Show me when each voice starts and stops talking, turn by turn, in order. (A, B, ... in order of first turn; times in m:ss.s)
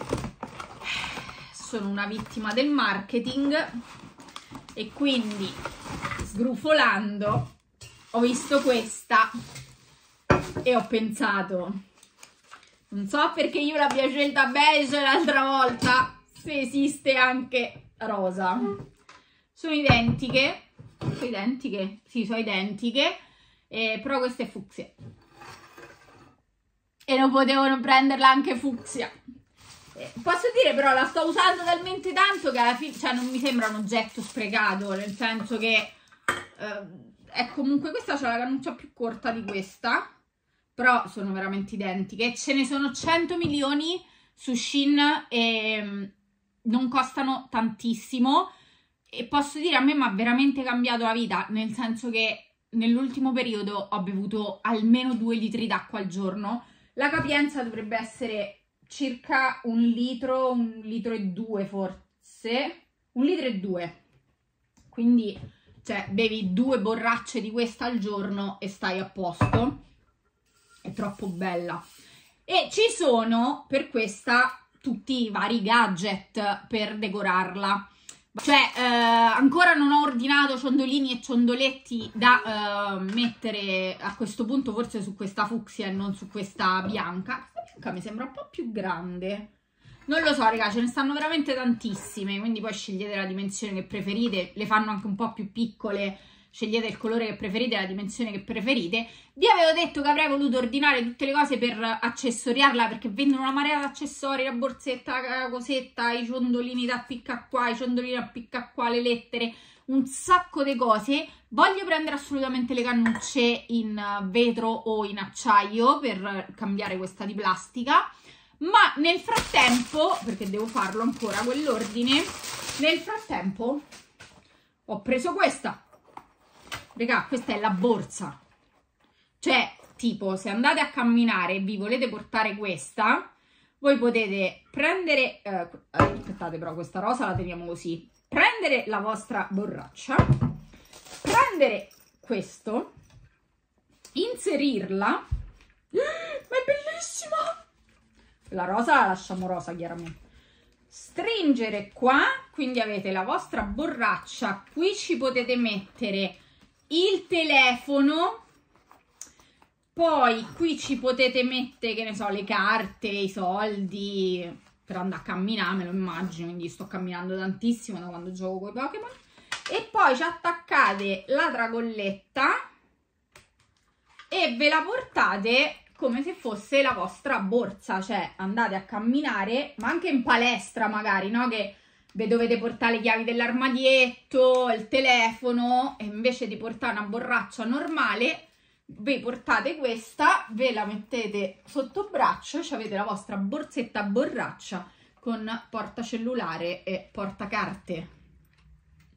0:00.8-0:03.8 A
0:04.7-0:05.6 A
0:06.2-0:07.5 A
0:08.1-0:09.3 A
0:10.6-0:11.8 A
0:12.9-0:18.8 A
0:19.5-0:24.9 A
0:27.1-0:29.1 A
0:29.9-0:36.0 A
0:36.6-0:40.1 A
0:40.7-0:46.1 A
0:46.6-0:48.5 A
0:49.1-1:04.0 A
1:04.9-1:09.8 A
1:10.8-1:11.8 A
1:12.4-1:29.5 A
1:30.1-1:58.1 A
1:58.6-2:03.8 A
2:04.9-2:05.8 A
2:06.9-2:08.4 A
2:09.4-2:20.4 A
2:21.2-2:22.9 A
2:24.1-2:25.2 A
2:25.9-2:27.6 A
2:28.5-2:30.2 A
2:30.9-2:38.4 A
2:39.9-2:49.2 A
2:49.7-2:52.6 A
2:54.3-3:18.1 A